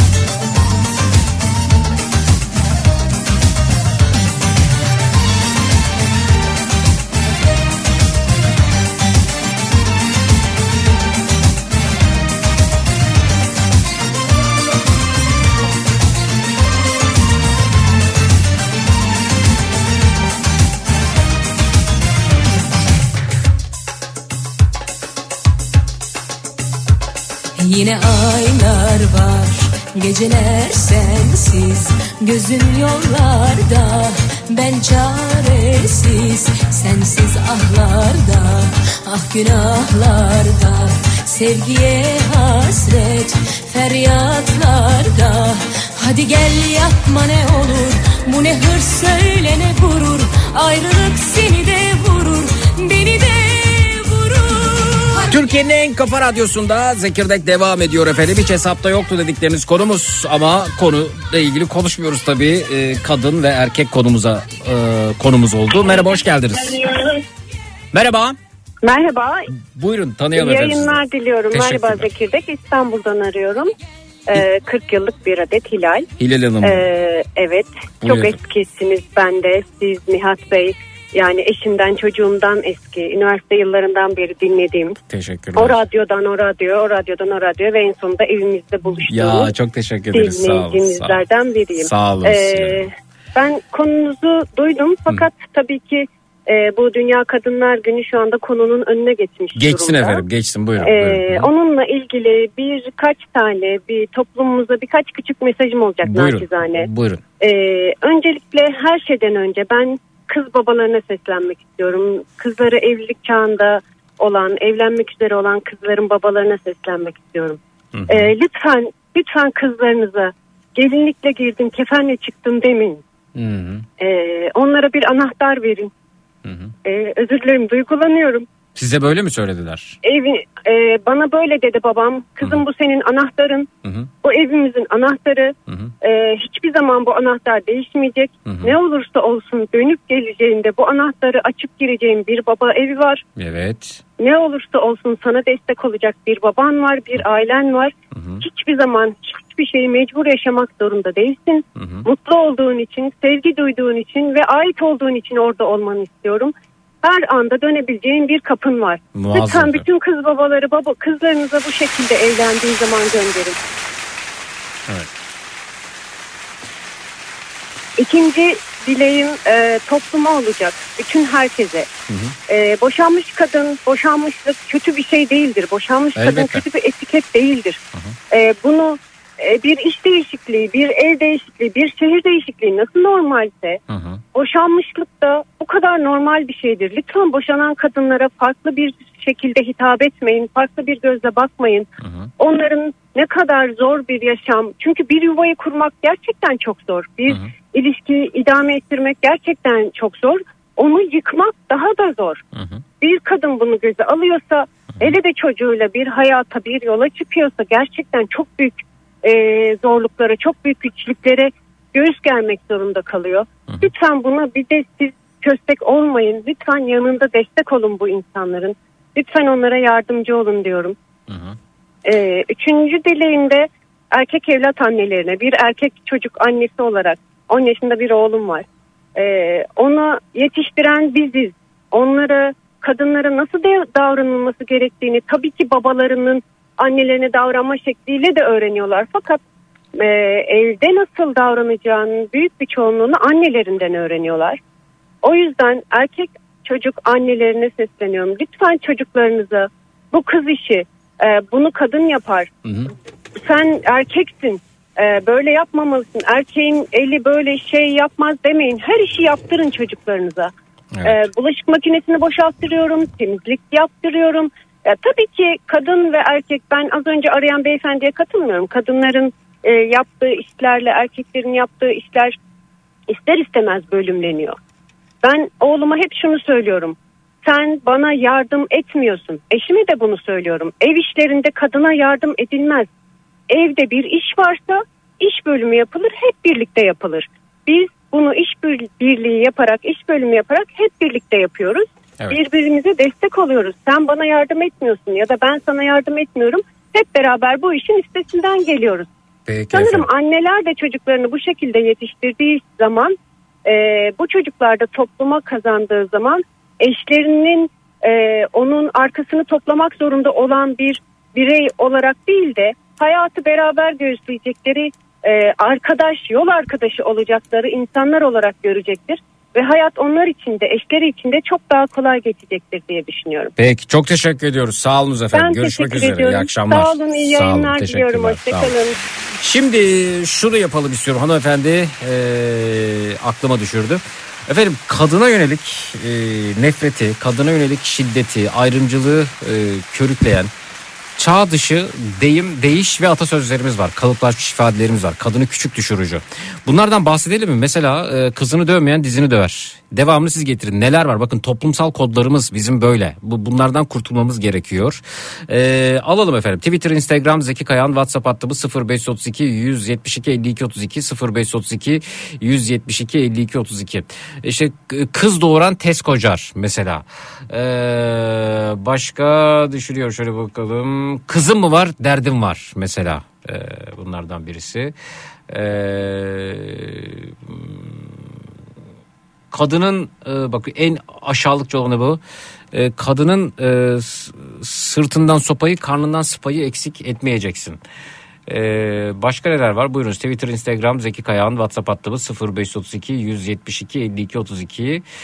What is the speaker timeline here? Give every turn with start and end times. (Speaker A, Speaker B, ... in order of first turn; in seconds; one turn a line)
Speaker A: 27.6-55.3
Speaker B: 55.3-66.9
Speaker C: 66.6-67.0
Speaker B: 67.9-68.4
Speaker C: 68.8-69.5
Speaker B: 69.5-72.1
Speaker C: 70.3-73.7
Speaker C: 74.3-76.1
Speaker B: 76.2-76.9
Speaker C: 76.6-85.0
Speaker B: 78.0-78.4
Speaker B: 85.1-85.8
Speaker C: 85.6-89.5
Speaker B: 89.1-91.2
Speaker C: 90.1-100.2
Speaker B: 91.8-92.9
Speaker B: 99.5-101.5
Speaker C: 100.8-106.9
Speaker B: 106.0-107.2
Speaker C: 107.4-123.0
Speaker B: 117.9-118.3
Speaker B: 123.4-123.9
Speaker C: 124.0-125.9
Speaker B: 126.5-126.7
Speaker C: 126.8-128.5
Speaker B: 128.8-130.0
Speaker C: 130.0-133.7
Speaker B: 133.8-134.1
Speaker C: 134.2-143.2
Speaker B: 135.7-135.9
Speaker B: 138.5-138.8
Speaker B: 143.4-144.0
Speaker C: 144.2-163.6
Speaker B: 148.1-148.4
Speaker B: 151.8-152.1
Speaker B: 159.2-159.9
Speaker C: 168.0-171.9
Speaker B: 172.1-172.3
Speaker C: 172.5-177.8
Speaker B: 176.2-176.6
Speaker C: 178.3-183.8
Speaker B: 183.9-184.2
Speaker C: 184.3-202.4
Speaker B: 192.0-192.3
Speaker B: 197.3-197.5
Speaker B: 202.6-202.8
Speaker C: 203.0-221.0
Speaker B: 221.3-221.6
Speaker C: 222.1-239.4
Speaker C: 239.9-244.6
Speaker C: 245.2-252.5
Speaker B: 252.7-252.9
Speaker C: 253.4-260.5
Speaker B: 260.9-261.3
Speaker C: 261.0-272.4
Speaker C: 273.1-274.6
Speaker C: 275.2-282.9
Speaker C: 283.5-299.1
Speaker B: 299.5-300.1
Speaker C: 299.7-323.5
Speaker B: 323.6-328.8
Speaker C: 325.3-329.0
Speaker B: 329.4-340.5
Speaker B: 341.2-374.9
Speaker B: 375.5-378.2
Speaker B: 379.5-382.2
Speaker B: 382.7-387.8
Speaker B: 388.5-395.0